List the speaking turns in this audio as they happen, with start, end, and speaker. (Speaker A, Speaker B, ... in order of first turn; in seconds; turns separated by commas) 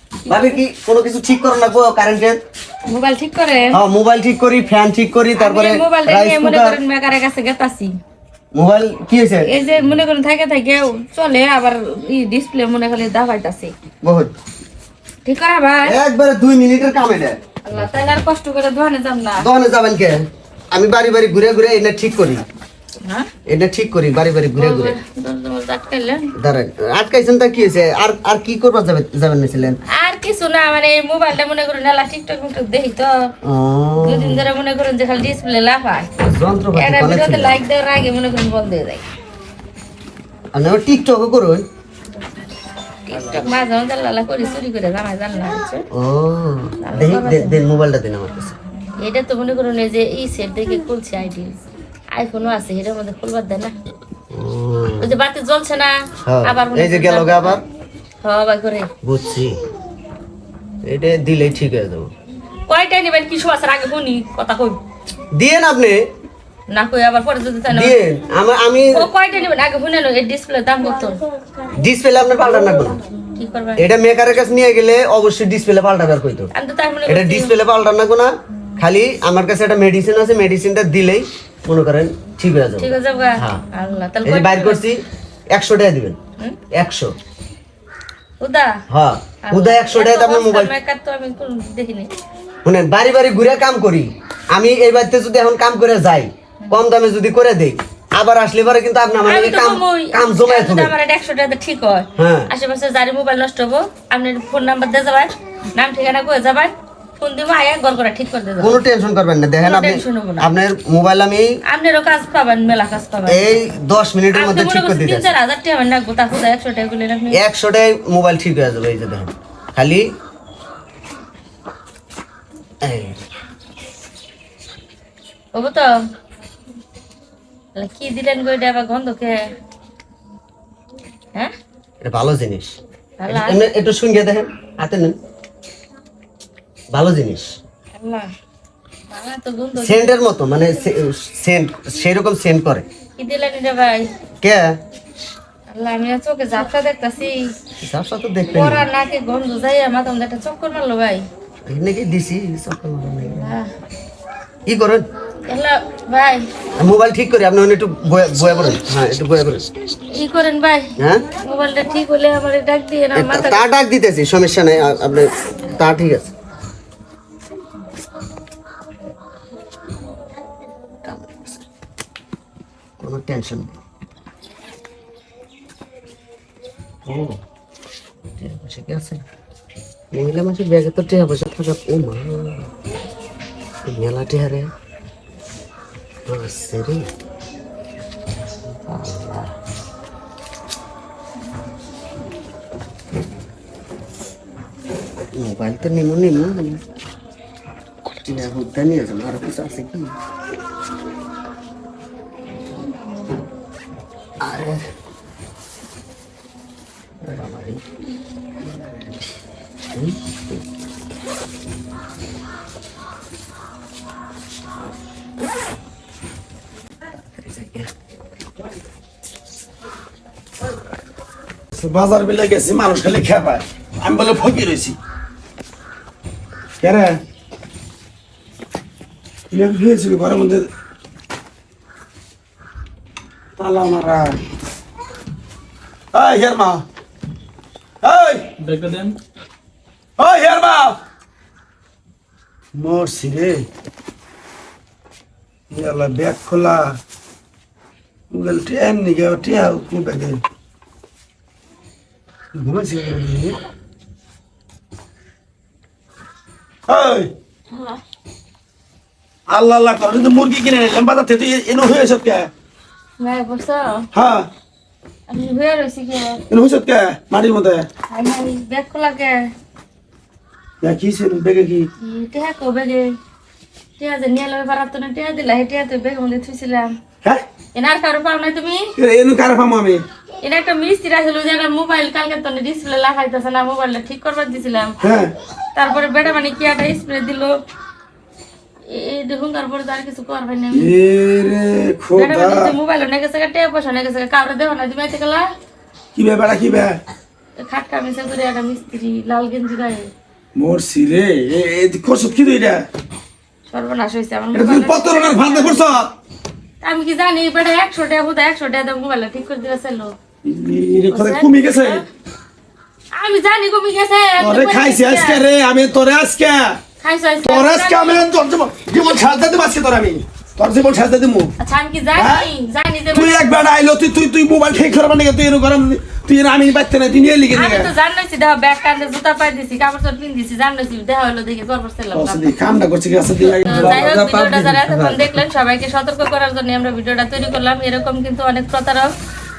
Speaker A: 0.3-2.4, Speaker B: 0.3-0.6, Speaker B: 2.9-3.8, Speaker A: 3.7-6.8, Speaker B: 5.4-8.0, Speaker A: 8.5-9.5, Speaker B: 9.4-13.7, Speaker A: 14.0-14.3, Speaker B: 15.2-16.0, Speaker A: 15.8-17.4, Speaker B: 17.6-19.5, Speaker A: 19.4-20.2, Speaker A: 20.7-22.4, Speaker A: 23.5-25.0, Speaker B: 24.6-26.3, Speaker A: 26.4-29.8, Speaker B: 29.9-33.3, Speaker A: 33.4-34.5, Speaker B: 34.0-36.1, Speaker A: 36.2-37.6, Speaker B: 36.7-39.0, Speaker A: 40.5-41.6, Speaker B: 43.1-45.9, Speaker A: 45.9-48.5, Speaker B: 46.8-47.6, Speaker B: 49.0-51.6, Speaker B: 52.1-53.7, Speaker A: 54.3-55.1, Speaker B: 55.0-57.6, Speaker A: 56.2-57.6, Speaker B: 58.2-58.9, Speaker A: 59.0-59.6, Speaker A: 60.8-62.1, Speaker B: 62.7-64.8, Speaker A: 65.3-66.0, Speaker B: 66.7-68.0, Speaker A: 67.7-69.1, Speaker B: 68.9-71.2, Speaker A: 71.7-73.0, Speaker B: 73.4-73.9, Speaker A: 73.8-76.5, Speaker B: 76.5-77.6, Speaker A: 77.1-83.6, Speaker B: 82.8-84.8, Speaker A: 84.2-86.2, Speaker A: 86.7-87.2, Speaker B: 88.4-88.8, Speaker A: 88.9-90.7, Speaker B: 89.5-92.1, Speaker A: 92.6-100.9, Speaker B: 99.2-108.8, Speaker A: 102.2-102.5, Speaker A: 108.6-111.6, Speaker B: 109.6-110.5, Speaker B: 111.7-113.6, Speaker A: 113.3-115.3, Speaker B: 114.3-117.4, Speaker A: 117.3-120.0, Speaker A: 122.8-123.2, Speaker B: 125.5-125.9, Speaker B: 127.8-129.4, Speaker A: 132.0-135.2, Speaker B: 133.2-133.7, Speaker A: 136.9-137.6, Speaker B: 138.0-138.3, Speaker B: 139.1-140.1, Speaker A: 139.8-142.9, Speaker B: 143.2-144.1, Speaker A: 144.4-144.7, Speaker B: 145.7-147.5, Speaker A: 147.8-148.9, Speaker B: 148.5-151.2, Speaker A: 151.7-153.6, Speaker B: 153.4-153.7, Speaker A: 154.7-155.1, Speaker B: 155.5-156.4, Speaker A: 156.8-159.7, Speaker B: 160.1-163.7, Speaker A: 161.0-161.2, Speaker A: 163.2-166.3, Speaker A: 171.0-171.7, Speaker A: 173.0-173.8, Speaker A: 177.1-177.4, Speaker A: 178.4-179.2, Speaker A: 180.1-182.7, Speaker A: 183.8-184.7, Speaker A: 186.3-187.1, Speaker A: 188.9-189.5, Speaker A: 195.3-196.9, Speaker A: 198.1-200.2, Speaker A: 204.4-204.8, Speaker A: 207.2-207.8, Speaker A: 208.6-209.3, Speaker A: 209.9-210.7, Speaker A: 217.4-217.9, Speaker C: 221.7-225.0, Speaker C: 226.8-227.2, Speaker C: 229.5-230.7, Speaker C: 233.6-234.4, Speaker C: 236.1-236.8, Speaker C: 238.0-239.2, Speaker C: 240.2-241.0, Speaker C: 242.7-243.7, Speaker C: 245.7-247.0, Speaker C: 248.3-250.4, Speaker C: 252.6-253.5, Speaker C: 256.9-257.3, Speaker B: 257.7-258.0, Speaker C: 259.5-262.5, Speaker B: 263.2-264.1, Speaker C: 264.1-264.5, Speaker B: 265.3-266.4, Speaker C: 266.5-267.9, Speaker B: 268.1-269.5, Speaker C: 270.8-271.9, Speaker B: 272.0-273.1, Speaker B: 274.0-276.9, Speaker B: 277.7-278.9, Speaker C: 279.0-280.0, Speaker B: 280.4-285.0, Speaker C: 285.0-285.3, Speaker B: 285.8-287.6, Speaker B: 288.9-290.9, Speaker C: 290.7-292.8, Speaker B: 292.2-295.5, Speaker C: 296.1-297.0, Speaker B: 297.6-300.1, Speaker C: 300.6-302.9, Speaker B: 303.7-306.0, Speaker C: 304.5-306.1, Speaker B: 306.8-310.1, Speaker C: 310.4-312.0, Speaker B: 311.1-312.1, Speaker B: 313.1-315.4, Speaker C: 314.4-316.8, Speaker B: 317.0-318.2, Speaker C: 317.4-321.5, Speaker B: 321.6-323.4, Speaker C: 322.2-322.5, Speaker C: 323.1-327.9, Speaker B: 327.5-332.4, Speaker C: 332.1-335.3, Speaker B: 333.4-339.1